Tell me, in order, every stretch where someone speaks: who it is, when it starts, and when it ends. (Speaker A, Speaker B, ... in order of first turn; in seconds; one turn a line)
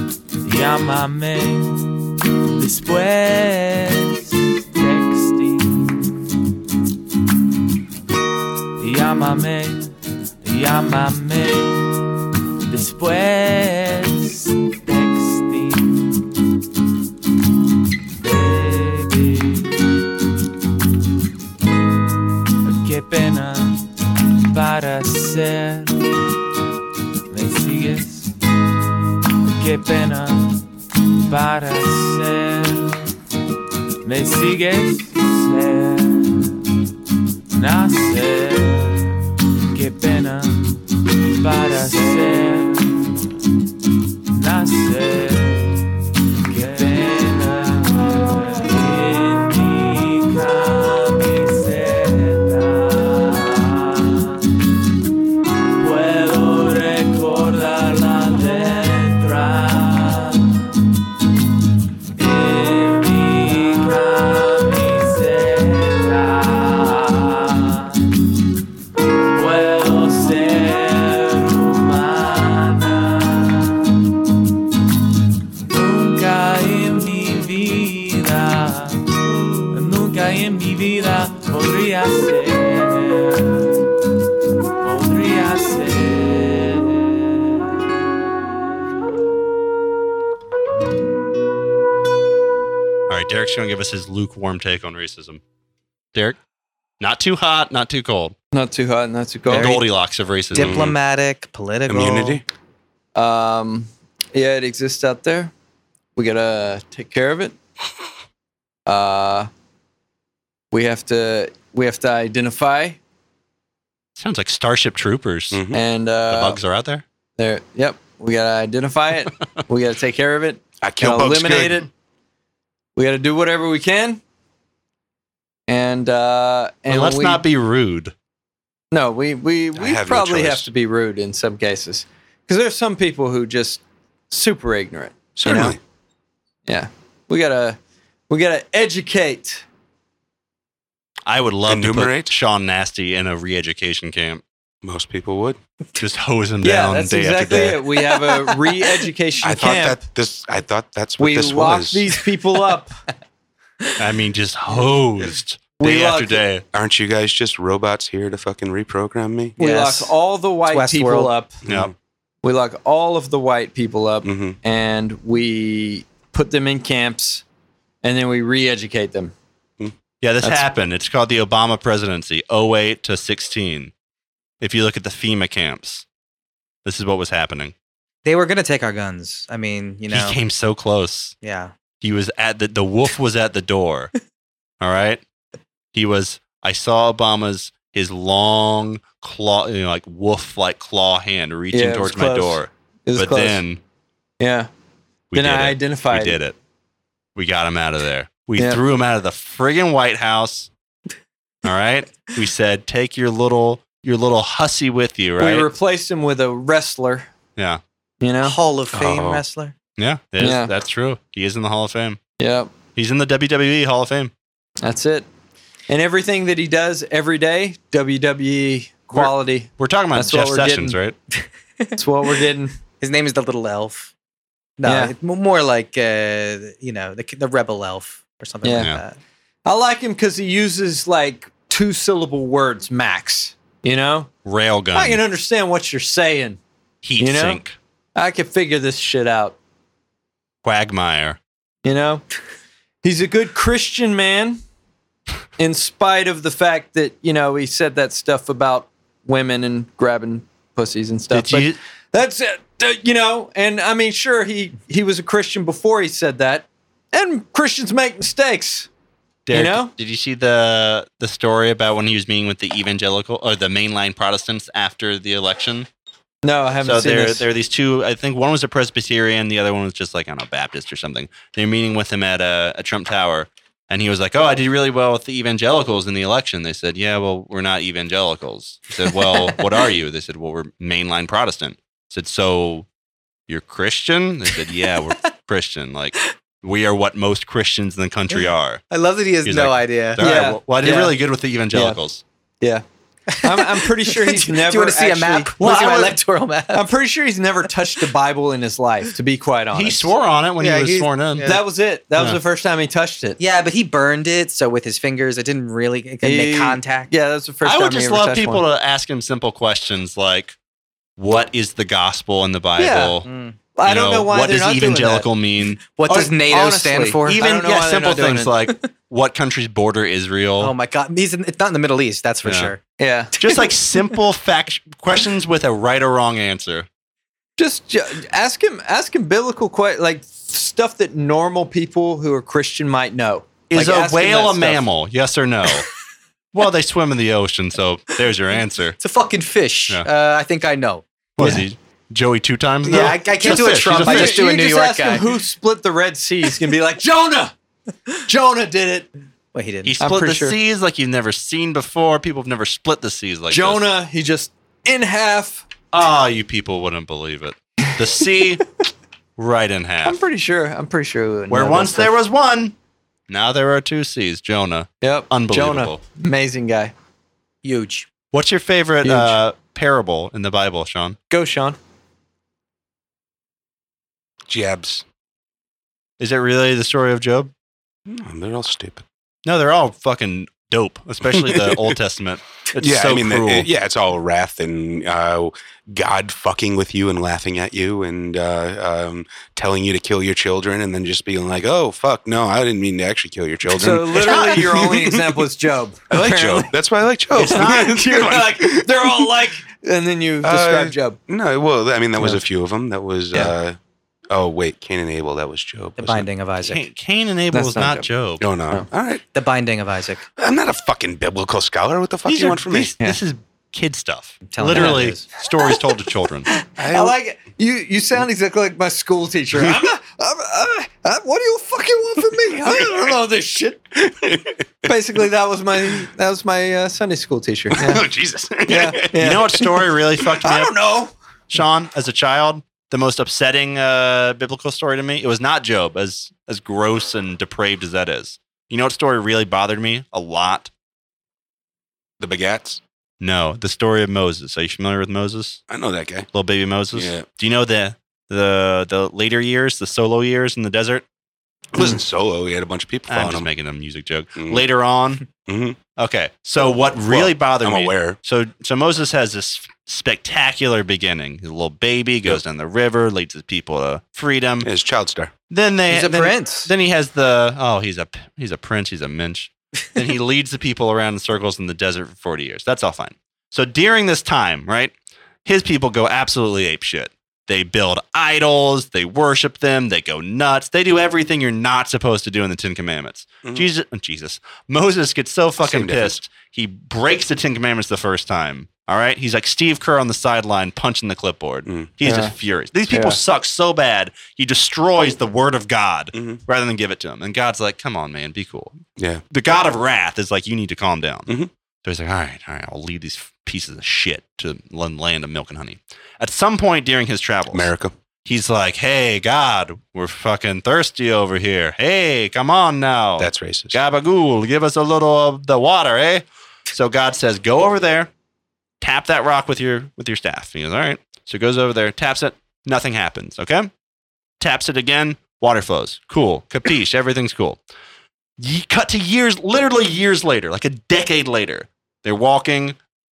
Speaker A: 0.4-1.9
Speaker A: 2.5-6.0
Speaker A: 8.8-16.3
Speaker A: 18.2-19.9
Speaker A: 22.6-26.1
Speaker A: 27.3-28.4
Speaker A: 29.4-33.1
Speaker A: 34.0-36.7
Speaker A: 37.5-43.2
Speaker A: 44.3-54.7
Speaker A: 55.6-60.7
Speaker A: 62.1-68.2
Speaker A: 69.2-74.0
Speaker A: 75.7-83.9
Speaker A: 84.8-87.8
Speaker B: 93.1-95.4
Speaker B: 97.0-98.3
Speaker C: 98.5-99.7
Speaker D: 99.5-99.8
Speaker B: 99.5-100.8
Speaker D: 100.5-102.4
Speaker E: 100.5-101.0
Speaker E: 101.9-102.4
Speaker C: 103.1-105.5
Speaker C: 106.1-107.5
Speaker C: 108.8-109.5
Speaker C: 110.7-113.0
Speaker B: 114.2-115.6
Speaker E: 115.5-115.8
Speaker C: 115.7-116.6
Speaker B: 116.3-117.0
Speaker C: 117.4-121.9
Speaker E: 120.8-121.9
Speaker C: 122.9-124.2
Speaker C: 125.7-127.4
Speaker B: 126.9-128.1
Speaker C: 128.9-135.8
Speaker E: 129.8-130.7
Speaker E: 135.3-135.8
Speaker C: 136.7-137.8
Speaker C: 138.3-139.6
Speaker B: 141.2-144.4
Speaker E: 141.7-142.3
Speaker E: 144.8-145.6
Speaker B: 146.0-147.8
Speaker C: 146.6-150.0
Speaker D: 148.1-149.0
Speaker E: 149.4-152.2
Speaker C: 151.2-152.9
Speaker B: 154.0-156.6
Speaker C: 155.8-156.4
Speaker E: 156.7-159.6
Speaker C: 159.6-161.5
Speaker D: 159.6-160.1
Speaker D: 160.7-161.3
Speaker E: 161.6-161.9
Speaker B: 161.7-161.9
Speaker C: 162.4-167.4
Speaker E: 164.2-164.6
Speaker C: 168.0-169.3
Speaker B: 170.2-173.9
Speaker B: 174.6-176.1
Speaker B: 176.8-177.7
Speaker D: 178.2-180.4
Speaker B: 180.1-181.3
Speaker D: 181.4-181.7
Speaker B: 182.0-184.1
Speaker B: 184.8-185.2
Speaker B: 185.9-193.8
Speaker C: 191.7-193.6
Speaker C: 194.4-194.7
Speaker B: 195.3-196.6
Speaker C: 195.3-196.4
Speaker B: 197.3-200.7
Speaker C: 198.6-198.8
Speaker B: 201.6-205.7
Speaker C: 205.4-207.3
Speaker C: 208.2-208.6
Speaker D: 208.4-209.7
Speaker E: 208.9-209.4
Speaker B: 210.0-212.2
Speaker C: 210.4-210.7
Speaker C: 212.4-212.7
Speaker B: 212.9-214.3
Speaker C: 214.8-215.2
Speaker C: 215.9-221.0
Speaker B: 219.1-221.2
Speaker D: 221.4-222.0
Speaker C: 222.0-222.7
Speaker D: 223.0-224.1
Speaker D: 224.8-229.2
Speaker C: 224.8-225.1
Speaker C: 228.6-228.9
Speaker C: 229.6-234.3
Speaker B: 234.4-235.2
Speaker C: 234.9-236.6
Speaker B: 237.0-237.8
Speaker C: 237.2-237.6
Speaker C: 238.1-239.6
Speaker B: 240.6-241.4
Speaker C: 241.8-242.2
Speaker C: 243.0-244.6
Speaker C: 245.6-258.9
Speaker B: 251.3-251.8
Speaker B: 259.4-265.9
Speaker C: 259.5-259.9
Speaker C: 266.4-267.4
Speaker B: 266.8-282.9
Speaker D: 279.3-279.6
Speaker B: 283.5-288.8
Speaker D: 288.3-290.2
Speaker B: 289.4-292.2
Speaker C: 290.2-291.1
Speaker C: 291.7-292.0
Speaker D: 293.3-296.9
Speaker C: 293.4-295.5
Speaker B: 295.6-296.2
Speaker C: 296.7-300.1
Speaker B: 299.7-301.6
Speaker D: 300.6-301.6
Speaker C: 301.4-303.4
Speaker D: 303.4-307.1
Speaker C: 306.2-308.6
Speaker B: 307.6-310.6
Speaker B: 311.2-313.3
Speaker C: 312.8-313.2
Speaker D: 313.2-313.6
Speaker C: 313.8-315.3
Speaker B: 313.8-315.8
Speaker D: 315.9-317.4
Speaker C: 316.1-318.5
Speaker B: 317.2-320.7
Speaker D: 320.6-322.8
Speaker B: 322.4-322.7
Speaker C: 323.0-323.3
Speaker D: 323.3-323.7
Speaker B: 323.4-326.9
Speaker C: 327.6-334.8
Speaker B: 333.7-335.9
Speaker B: 336.5-339.0
Speaker D: 339.0-341.0
Speaker B: 341.4-344.4
Speaker C: 341.4-341.6
Speaker D: 342.8-345.3
Speaker C: 343.5-347.5
Speaker C: 348.2-349.1
Speaker D: 349.5-349.9
Speaker B: 349.8-353.8
Speaker C: 350.0-350.6
Speaker C: 353.5-355.6
Speaker B: 355.9-358.7
Speaker B: 359.4-360.2
Speaker C: 360.0-362.1
Speaker B: 361.5-362.7
Speaker B: 363.3-366.0
Speaker C: 365.0-366.9
Speaker D: 367.6-368.1
Speaker B: 368.3-371.2
Speaker C: 369.0-369.4
Speaker C: 371.3-371.8
Speaker E: 374.5-375.0
Speaker B: 376.2-377.5
Speaker E: 378.1-379.0
Speaker B: 379.4-383.7
Speaker E: 381.3-381.9
Speaker E: 382.8-395.4
Speaker C: 393.7-396.7
Speaker B: 394.1-394.6
Speaker E: 396.1-399.4
Speaker B: 397.3-398.0
Speaker C: 397.4-401.2
Speaker E: 400.4-403.8
Speaker E: 404.3-406.3
Speaker D: 406.0-406.8
Speaker B: 406.6-408.4
Speaker C: 407.5-408.1
Speaker E: 408.4-409.2
Speaker D: 409.3-410.2
Speaker E: 410.4-412.9
Speaker B: 412.2-416.5
Speaker D: 414.5-415.3
Speaker C: 414.7-415.0
Speaker E: 416.8-417.1
Speaker C: 416.8-423.8
Speaker E: 423.9-424.9
Speaker C: 424.8-428.0
Speaker E: 427.7-429.4
Speaker C: 428.7-429.7
Speaker B: 429.1-430.8
Speaker C: 430.4-431.1
Speaker B: 431.5-440.7
Speaker E: 442.2-442.8
Speaker B: 443.2-445.6
Speaker E: 445.7-446.3
Speaker B: 446.3-451.0
Speaker E: 446.9-447.2
Speaker E: 451.7-453.5
Speaker B: 453.1-455.3
Speaker E: 454.4-454.6
Speaker E: 455.4-455.8
Speaker B: 455.9-464.7
Speaker E: 456.9-458.2
Speaker E: 464.6-465.3
Speaker B: 465.5-474.9
Speaker D: 465.9-466.7
Speaker B: 475.4-501.3
Speaker E: 485.6-486.2
Speaker E: 491.7-491.9
Speaker C: 492.0-492.3
Speaker C: 492.9-493.2
Speaker E: 496.1-496.4
Speaker E: 499.0-499.2
Speaker B: 501.8-507.7
Speaker E: 507.5-507.9
Speaker B: 508.2-518.1
Speaker E: 513.2-513.8
Speaker B: 518.8-523.7
Speaker B: 524.4-527.6
Speaker B: 528.4-532.8